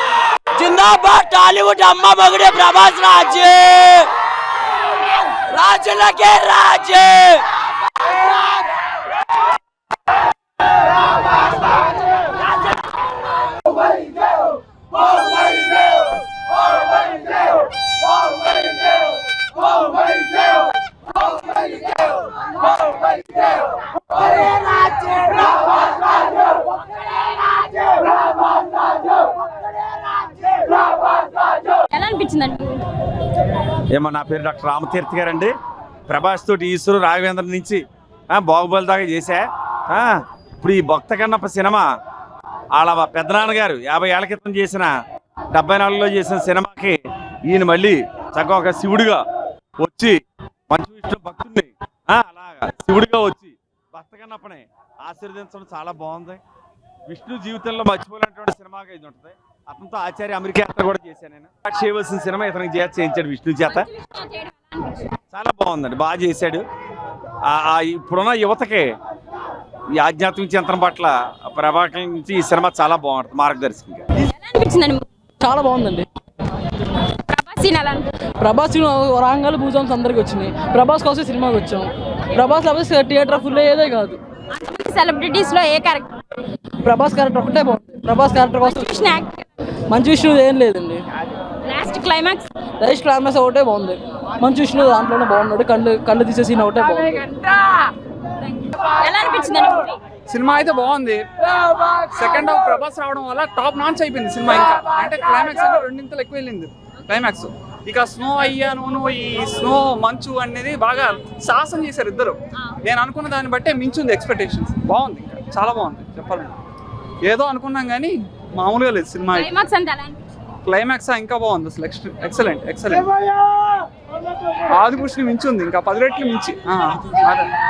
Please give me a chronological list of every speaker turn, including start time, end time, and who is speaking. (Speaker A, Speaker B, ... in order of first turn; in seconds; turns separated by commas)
Speaker A: 0.5-4.0, Speaker A: 5.5-6.0, Speaker A: 6.8-7.4, Speaker B: 31.9-32.8, Speaker C: 33.9-35.5, Speaker C: 36.1-41.8, Speaker C: 42.7-44.9, Speaker C: 45.5-49.2, Speaker C: 49.8-50.2, Speaker C: 50.7-56.4, Speaker C: 57.1-63.9, Speaker B: 63.6-65.1, Speaker C: 65.3-66.6, Speaker C: 67.5-68.8, Speaker C: 70.0-74.0, Speaker B: 74.2-75.1, Speaker D: 75.4-76.0, Speaker B: 77.3-78.1, Speaker D: 78.4-84.2, Speaker B: 84.5-86.1, Speaker D: 86.8-89.2, Speaker B: 88.6-89.4, Speaker D: 89.9-91.0, Speaker B: 91.6-92.5, Speaker D: 92.8-97.3, Speaker B: 98.5-100.0, Speaker E: 100.3-101.2, Speaker E: 102.1-116.5, Speaker E: 117.2-119.5, Speaker B: 119.3-120.2, Speaker E: 120.7-123.1, Speaker E: 124.7-127.5